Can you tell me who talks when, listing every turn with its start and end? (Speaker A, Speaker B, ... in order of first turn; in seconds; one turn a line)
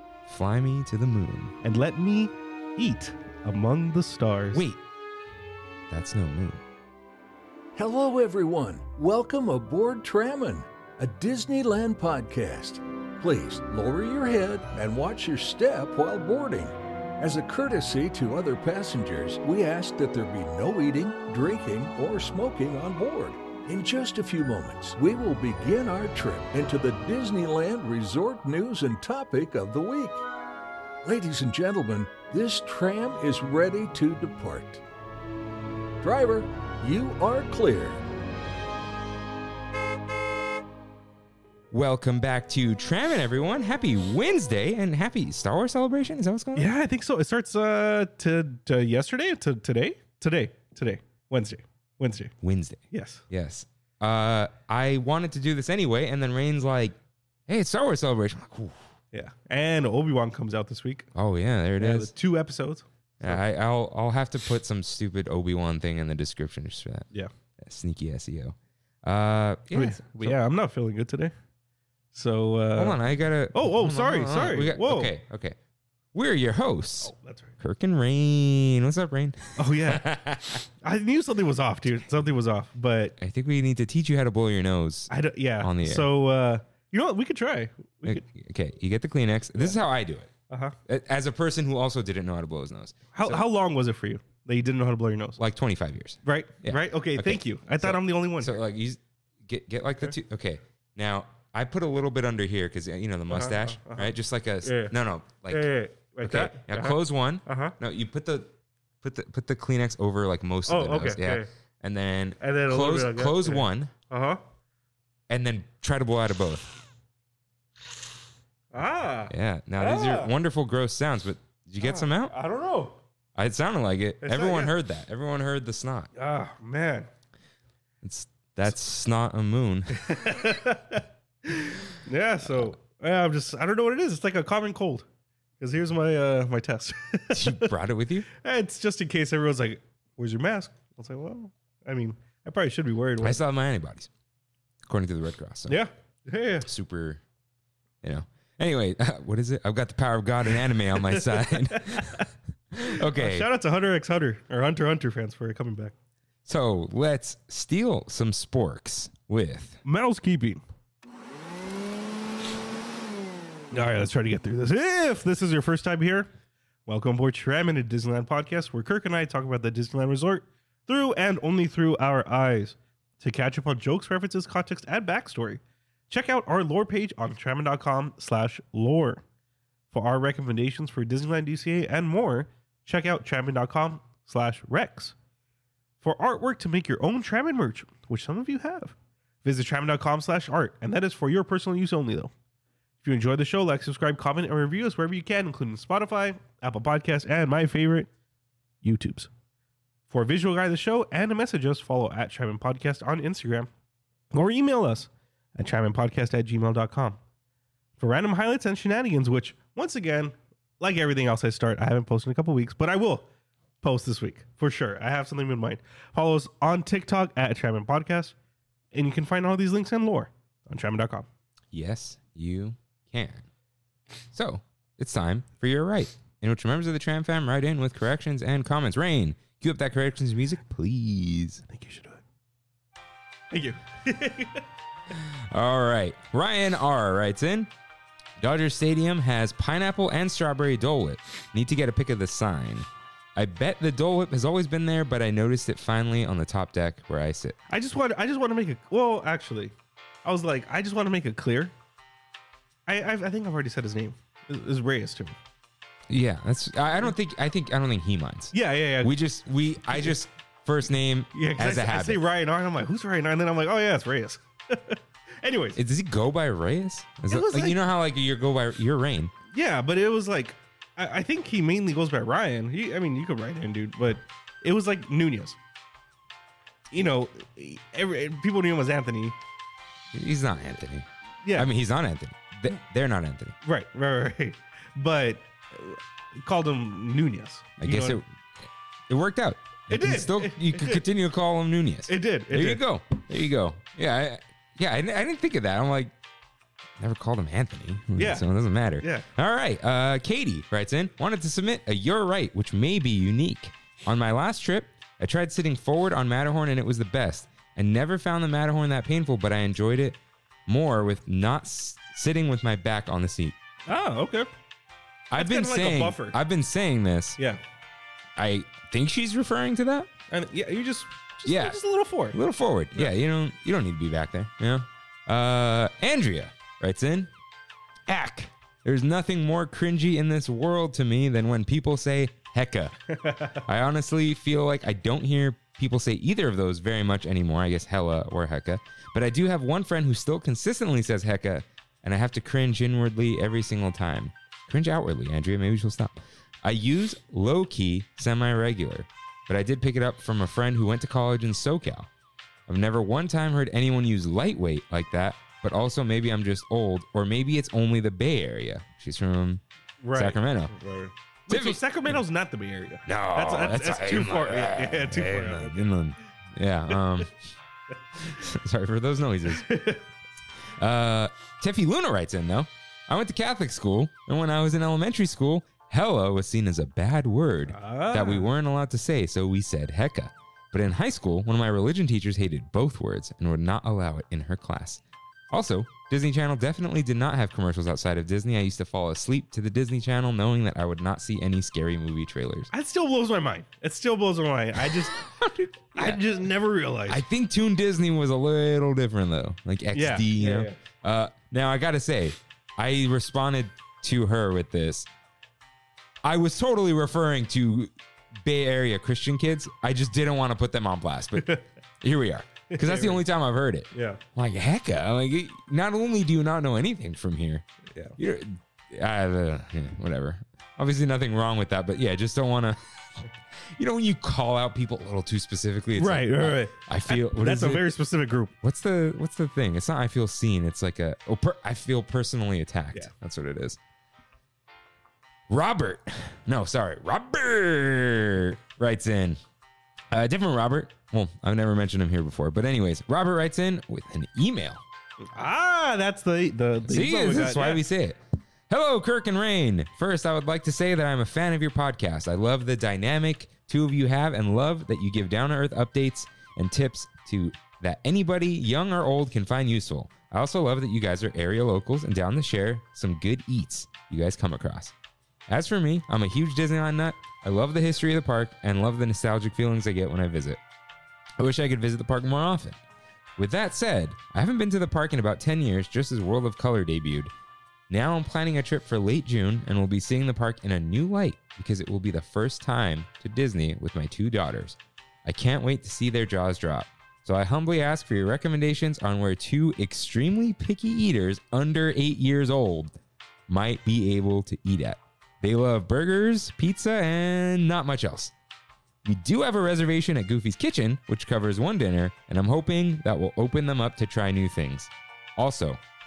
Speaker A: 0.3-1.6
Speaker B: 1.6-4.6
Speaker A: 4.5-4.8
Speaker A: 5.9-6.6
Speaker C: 7.8-30.3
Speaker C: 31.0-34.8
Speaker C: 36.0-38.1
Speaker A: 41.7-46.7
Speaker B: 46.5-52.4
Speaker A: 52.4-57.0
Speaker B: 52.9-53.2
Speaker A: 57.5-58.7
Speaker B: 59.1-61.1
Speaker A: 61.1-62.1
Speaker B: 61.8-63.4
Speaker A: 63.2-67.1
Speaker A: 67.6-70.4
Speaker B: 69.7-71.3
Speaker B: 72.1-73.0
Speaker A: 72.8-75.6
Speaker B: 73.5-75.1
Speaker A: 76.1-80.6
Speaker B: 77.0-77.5
Speaker B: 79.6-80.2
Speaker B: 80.8-83.2
Speaker A: 83.2-86.1
Speaker B: 85.1-88.2
Speaker A: 88.0-90.3
Speaker B: 90.5-90.8
Speaker A: 90.9-93.4
Speaker B: 93.1-95.4
Speaker A: 95.4-105.6
Speaker B: 96.2-98.6
Speaker B: 103.3-104.1
Speaker B: 104.6-104.9
Speaker B: 105.5-107.8
Speaker A: 106.2-108.5
Speaker A: 109.0-113.9
Speaker B: 110.7-111.5
Speaker B: 112.4-114.4
Speaker A: 115.3-116.7
Speaker B: 118.7-120.3
Speaker A: 119.3-122.3
Speaker B: 121.8-123.0
Speaker A: 123.4-126.1
Speaker B: 124.2-124.7
Speaker B: 126.2-127.1
Speaker A: 128.0-130.2
Speaker B: 129.9-135.1
Speaker B: 135.6-137.7
Speaker A: 137.3-138.3
Speaker B: 138.4-143.4
Speaker A: 143.2-144.1
Speaker A: 144.9-145.8
Speaker B: 145.7-146.7
Speaker A: 146.6-147.2
Speaker A: 148.0-153.5
Speaker B: 151.0-152.2
Speaker B: 152.9-155.9
Speaker A: 156.4-159.8
Speaker B: 159.8-160.6
Speaker B: 163.7-166.3
Speaker B: 166.9-179.2
Speaker B: 179.9-185.1
Speaker B: 186.0-192.3
Speaker B: 193.0-198.1
Speaker B: 198.8-199.3
Speaker B: 200.1-203.7
Speaker B: 204.3-207.2
Speaker B: 208.0-213.3
Speaker B: 213.8-218.3
Speaker B: 218.9-221.3
Speaker A: 221.7-223.4
Speaker A: 224.3-231.7
Speaker B: 231.7-232.2
Speaker B: 233.5-234.6
Speaker A: 235.1-237.7
Speaker A: 238.4-247.6
Speaker B: 247.7-251.7
Speaker B: 252.9-255.3
Speaker A: 256.1-262.2
Speaker B: 258.5-259.1
Speaker B: 261.3-265.8
Speaker A: 265.8-269.3
Speaker B: 267.3-267.8
Speaker B: 269.5-275.6
Speaker B: 276.9-279.4
Speaker A: 280.1-283.6
Speaker B: 283.6-288.2
Speaker A: 287.8-288.3
Speaker A: 289.1-296.1
Speaker B: 289.9-291.0
Speaker B: 292.1-292.8
Speaker A: 297.0-313.6
Speaker B: 298.2-298.4
Speaker B: 299.0-299.3
Speaker B: 313.9-314.5
Speaker A: 315.3-317.4
Speaker B: 315.4-316.4
Speaker A: 318.4-320.1
Speaker B: 320.3-322.4
Speaker A: 321.5-321.8
Speaker A: 322.3-327.3
Speaker A: 328.1-333.0
Speaker A: 333.5-352.1
Speaker A: 352.7-359.6
Speaker B: 360.0-365.9
Speaker A: 360.1-360.7
Speaker A: 361.5-362.1
Speaker A: 363.1-367.4
Speaker A: 368.2-369.7
Speaker B: 369.5-370.0
Speaker A: 370.8-392.7
Speaker B: 377.7-378.5
Speaker B: 392.7-395.2
Speaker A: 395.1-396.2
Speaker B: 395.9-397.2
Speaker A: 397.1-405.1
Speaker B: 399.9-400.8
Speaker A: 406.2-417.6
Speaker B: 412.7-413.2
Speaker B: 413.9-414.2
Speaker A: 418.2-422.8
Speaker A: 423.7-427.8
Speaker B: 426.0-428.5
Speaker A: 428.6-433.8
Speaker A: 435.5-439.4
Speaker A: 440.1-444.8
Speaker B: 445.3-447.8
Speaker A: 446.9-464.9
Speaker A: 465.5-470.6
Speaker A: 471.4-472.8
Speaker A: 473.4-477.3
Speaker A: 477.9-492.9
Speaker A: 493.5-498.3
Speaker A: 499.0-505.8